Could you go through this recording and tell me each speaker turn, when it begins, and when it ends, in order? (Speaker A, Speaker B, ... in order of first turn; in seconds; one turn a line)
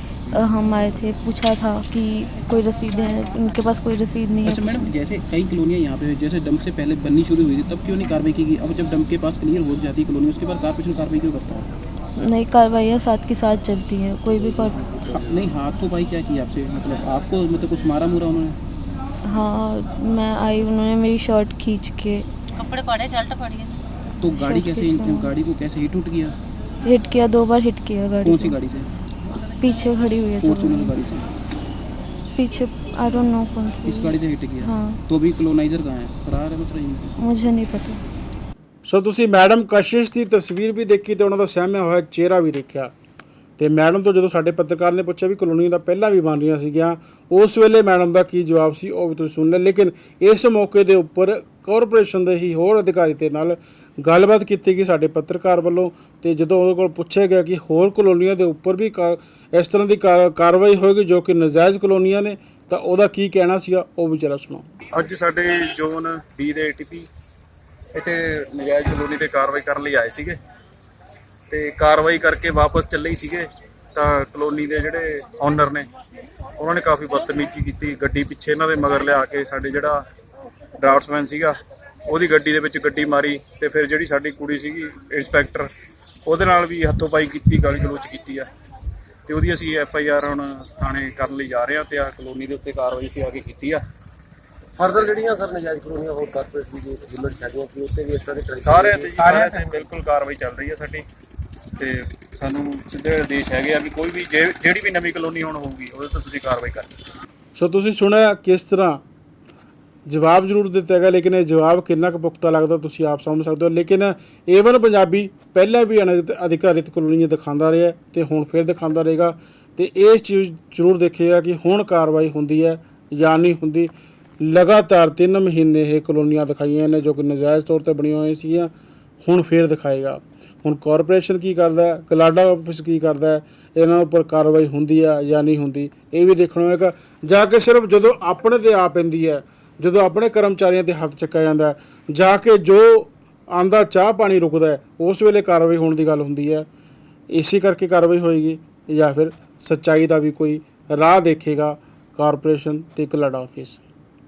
Speaker A: 0.3-4.9
Speaker B: 4.4-11.7
Speaker A: 12.2-14.8
Speaker B: 15.1-18.6
Speaker A: 19.2-22.3
Speaker B: 24.2-26.4
Speaker A: 24.3-25.3
Speaker A: 26.8-28.6
Speaker B: 28.2-28.9
Speaker A: 29.6-30.9
Speaker B: 30.4-31.3
Speaker A: 32.3-35.0
Speaker B: 33.8-37.1
Speaker A: 37.2-38.0
Speaker C: 38.9-42.9
Speaker C: 43.6-64.7
Speaker D: 64.9-67.1
Speaker D: 67.9-70.3
Speaker D: 71.5-75.9
Speaker D: 76.6-80.0
Speaker D: 80.8-81.5
Speaker D: 82.1-85.7
Speaker D: 86.2-88.5
Speaker D: 89.2-93.8
Speaker E: 94.8-99.6
Speaker D: 98.6-101.0
Speaker D: 101.8-106.9
Speaker C: 107.5-109.0
Speaker C: 110.1-128.7
Speaker C: 129.2-146.7
Speaker C: 147.3-153.8